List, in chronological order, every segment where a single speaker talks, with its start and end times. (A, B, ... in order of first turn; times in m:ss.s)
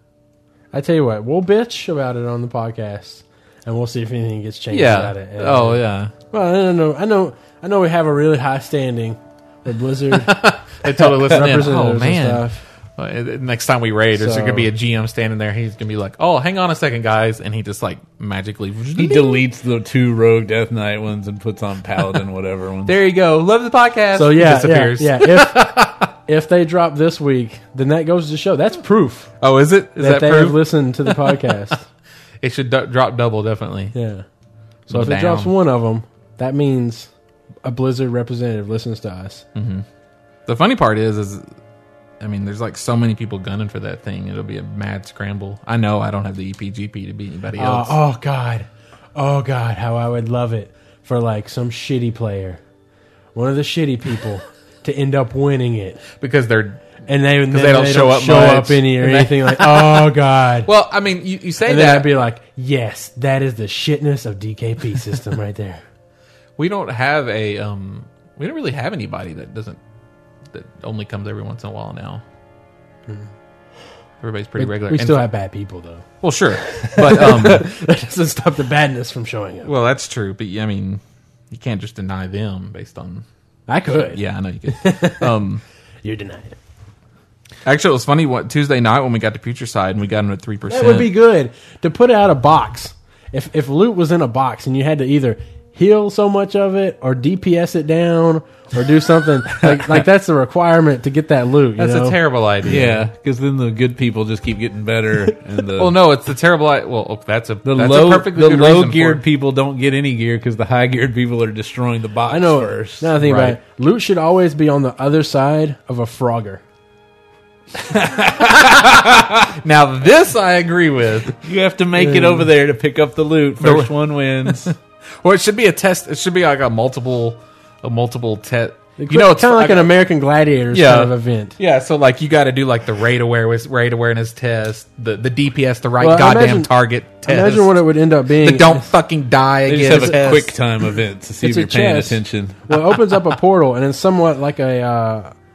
0:00.7-0:12.6 A
0:04.7-0:06.1 B
0:10.1-0:19.4 B
0:14.1-0:14.7 A
0:18.9-0:23.0 C
0:22.8-0:26.1 B
0:24.1-0:29.3 A
0:29.4-0:31.3 B
0:30.0-0:31.8 A
0:32.4-0:33.9 B
0:33.9-0:34.2 A
0:34.9-0:35.5 B
0:34.9-0:37.1 A
0:37.6-0:39.4 A
0:39.5-0:39.8 B
0:40.5-0:41.5 B
0:42.2-0:48.0 B
0:47.6-0:52.6 A
0:53.3-0:56.0 A
0:56.2-1:02.1 B
0:57.0-1:00.7 A
1:01.6-1:05.8 A
1:06.6-1:09.8 B
1:10.5-1:12.2 B
1:14.2-1:15.2 B
1:14.6-1:19.7 A
1:16.2-1:17.7 B
1:19.6-1:23.2 B
1:23.7-1:25.4 A
1:23.9-1:25.6 B
1:26.0-1:26.6 A
1:27.6-1:31.1 B
1:30.7-1:42.2 A
1:41.8-1:43.0 B
1:42.6-1:46.0 C
1:45.8-1:49.2 B
1:47.6-1:53.6 C
1:52.3-1:56.6 A
1:57.9-1:59.4 C
1:58.4-2:01.4 B
2:01.4-2:04.7 C
2:02.0-2:02.5 A
2:03.6-2:09.9 B
2:09.0-2:11.6 A
2:10.7-2:20.5 B
2:16.0-2:16.7 A
2:17.2-2:18.9 A
2:19.6-2:23.2 C
2:21.4-2:25.3 A